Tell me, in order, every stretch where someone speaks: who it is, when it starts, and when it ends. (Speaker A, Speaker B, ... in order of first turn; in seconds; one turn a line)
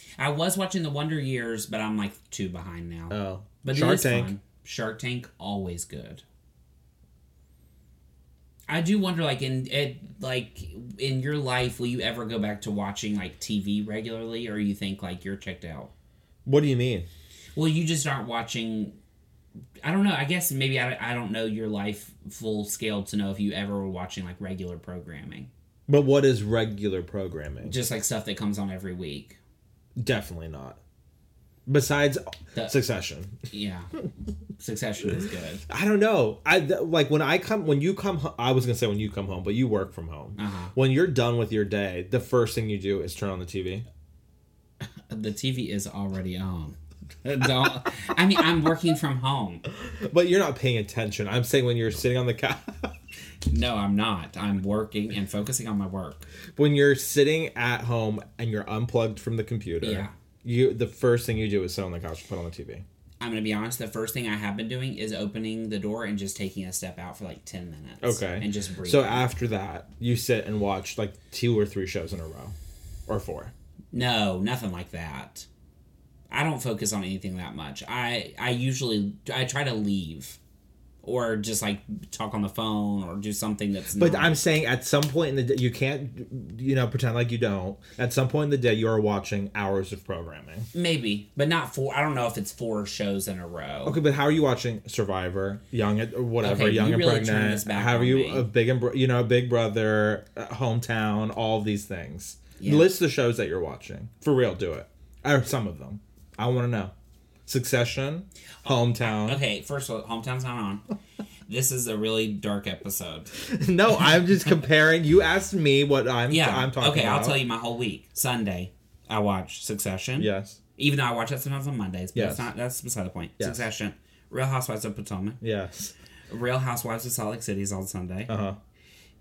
Speaker A: 0.2-6.2
Speaker B: 3.1-4.3
Speaker A: 8.7-15.9
Speaker B: 16.4-17.1
Speaker A: 17.6-19.0
Speaker A: 19.8-25.5
Speaker B: 25.9-27.8
Speaker A: 27.6-29.4
Speaker B: 30.0-30.8
Speaker B: 31.6-33.4
Speaker A: 32.5-32.8
Speaker A: 33.5-33.9
Speaker A: 34.6-35.6
Speaker B: 35.7-43.9
Speaker A: 40.4-40.7
Speaker A: 44.8-49.6
Speaker B: 49.7-52.9
Speaker A: 53.5-56.3
Speaker B: 56.5-62.9
Speaker A: 59.8-60.1
Speaker A: 63.2-69.3
Speaker B: 68.0-72.5
Speaker B: 73.1-73.5
Speaker A: 73.9-75.5
Speaker A: 76.3-80.4
Speaker A: 81.0-84.4
Speaker B: 84.0-90.7
Speaker A: 90.7-94.0
Speaker B: 93.8-106.9
Speaker A: 96.4-98.5
Speaker A: 102.6-102.9
Speaker B: 107.5-109.4
Speaker A: 109.0-110.8
Speaker A: 111.5-113.4
Speaker B: 113.4-117.4
Speaker A: 116.3-125.4
Speaker B: 120.2-120.6
Speaker B: 122.1-122.5
Speaker B: 123.4-123.7
Speaker B: 125.4-125.9
Speaker A: 126.3-128.3
Speaker B: 128.3-128.6